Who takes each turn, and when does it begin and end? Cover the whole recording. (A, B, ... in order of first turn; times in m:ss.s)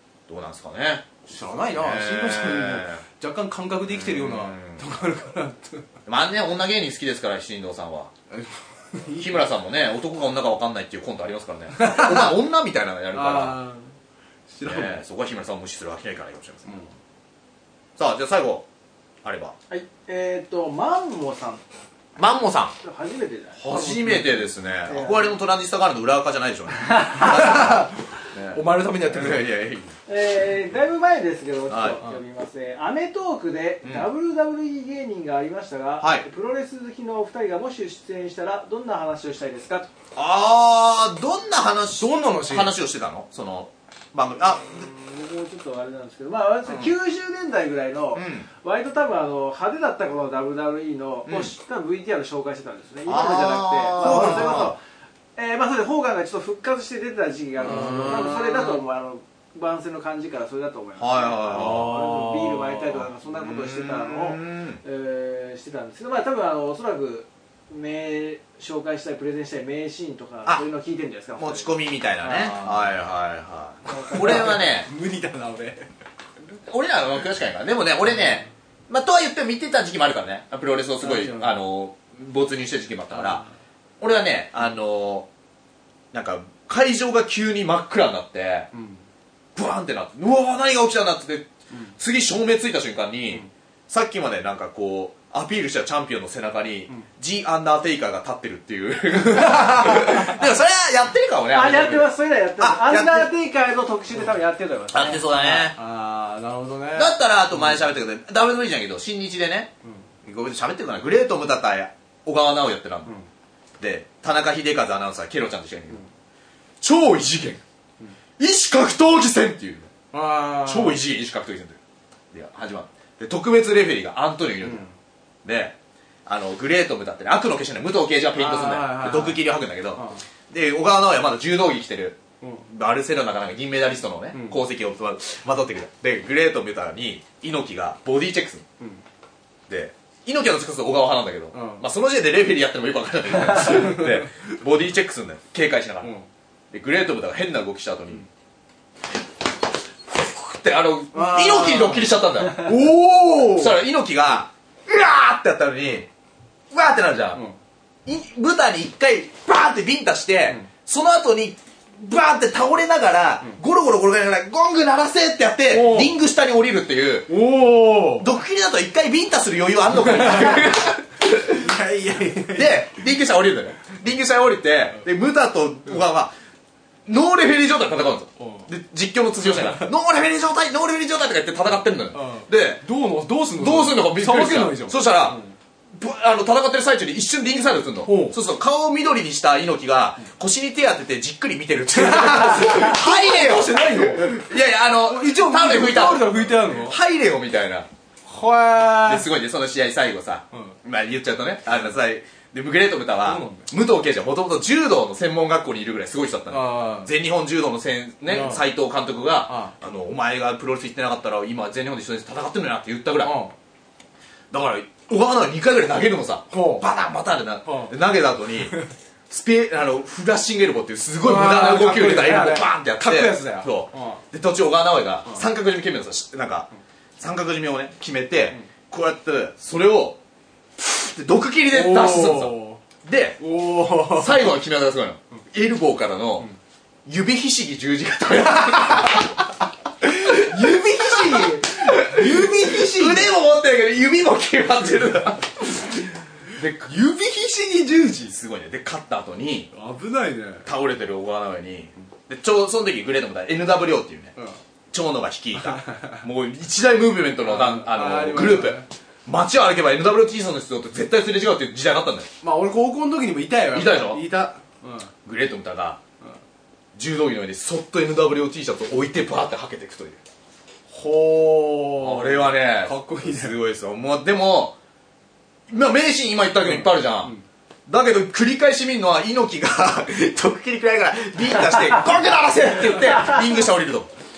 0:00.3-0:03.0 A
0:01.3-0:05.9 B
0:03.9-0:04.8 A
0:06.1-0:08.1 A
0:08.3-0:09.5 B
0:09.2-0:13.6 A
0:11.7-0:12.4 B
0:13.1-0:13.9 B
0:14.5-0:15.0 B
0:14.6-0:16.7 A
0:16.6-0:16.9 B
0:18.0-0:18.7 A
0:19.2-0:19.6 A
0:19.7-0:21.6 C
0:22.2-0:22.8 A
0:22.8-0:23.6 C
0:23.6-0:29.9 A
0:23.7-0:24.5 B
0:24.9-0:25.4 C
0:27.2-0:29.5 B
0:30.1-0:39.9 C
0:31.7-0:32.0 A
0:36.0-0:36.3 A
0:40.2-0:44.8 A
0:42.0-0:42.7 B
0:44.7-0:54.8 C
0:46.7-0:46.9 A
0:48.2-0:48.5 A
0:51.3-0:51.6 A
0:53.1-0:54.8 A
0:54.0-0:54.7 B
0:55.4-1:12.5 C
0:57.6-0:58.4 B
0:57.6-0:58.8 A
1:01.0-1:02.0 A
1:01.5-1:02.9 B
1:03.3-1:04.8 A
1:11.4-1:14.9 A
1:12.3-1:12.9 B
1:13.9-1:14.4 C
1:14.0-1:15.9 B
1:16.7-1:23.4 A
1:21.0-1:21.6 B
1:23.2-1:23.4 B
1:24.0-1:25.3 A
1:26.1-1:28.7 A
1:28.7-1:29.0 B
1:29.6-1:43.3 A
1:39.4-1:40.2 B
1:41.5-1:45.2 C
1:44.9-1:45.8 A
1:45.4-1:47.8 B
1:47.0-1:49.7 A
1:50.2-1:53.1 A
1:53.8-1:56.0 A
1:56.8-1:57.6 A
1:58.4-1:59.9 A
2:00.1-2:01.0 B
2:00.6-2:01.8 A
2:02.3-2:04.8 A
2:04.6-2:04.9 B
2:05.4-2:18.6 A
2:08.4-2:10.2 B
2:14.3-2:14.6 B
2:19.7-2:26.1 A
2:21.5-2:21.8 B
2:23.7-2:24.0 B
2:26.7-2:28.3 A
2:30.1-2:32.8 A
2:31.1-2:33.8 B
2:33.4-2:36.1 A
2:36.7-2:37.4 A
2:38.1-2:47.4 A
2:45.7-2:46.2 B
2:47.3-2:48.3 B
2:48.2-2:51.7 A
2:50.0-2:51.0 B
2:51.5-2:53.0 B
2:52.5-2:56.3 A
2:57.1-3:02.8 A
2:58.4-2:58.7 B
2:59.4-2:59.9 B
3:02.1-3:05.5 B
3:03.6-3:05.4 A
3:05.9-3:17.9 A
3:08.0-3:08.4 B
3:11.9-3:14.5 B
3:15.0-3:17.0 B
3:18.3-3:19.3 B
3:19.0-3:33.4 A
3:23.3-3:23.7 B
3:26.5-3:27.1 B
3:28.3-3:28.7 B
3:29.5-3:29.7 B
3:33.2-3:33.6 B
3:34.5-3:38.8 A
3:36.5-3:36.9 B
3:37.6-3:37.9 B
3:39.3-3:50.2 A
3:41.2-3:44.2 B
3:50.8-3:53.4 A
3:51.7-3:52.8 B
3:53.4-3:54.6 B
3:54.0-3:56.5 A
3:57.1-3:59.3 A
3:58.4-3:59.5 B
4:00.0-4:03.3 B
4:00.1-4:05.9 A
4:05.7-4:08.3 B
4:08.2-4:09.7 A
4:09.7-4:10.7 B
4:10.6-4:14.3 A
4:14.9-4:22.3 A
4:15.8-4:16.2 B
4:17.4-4:18.9 B
4:22.4-4:25.1 B
4:23.7-4:24.3 A
4:25.2-4:26.0 A
4:27.0-4:30.2 A
4:30.9-4:33.6 B
4:32.0-4:34.8 A
4:35.7-4:37.3 A
4:36.6-4:37.4 B
4:37.9-4:44.1 A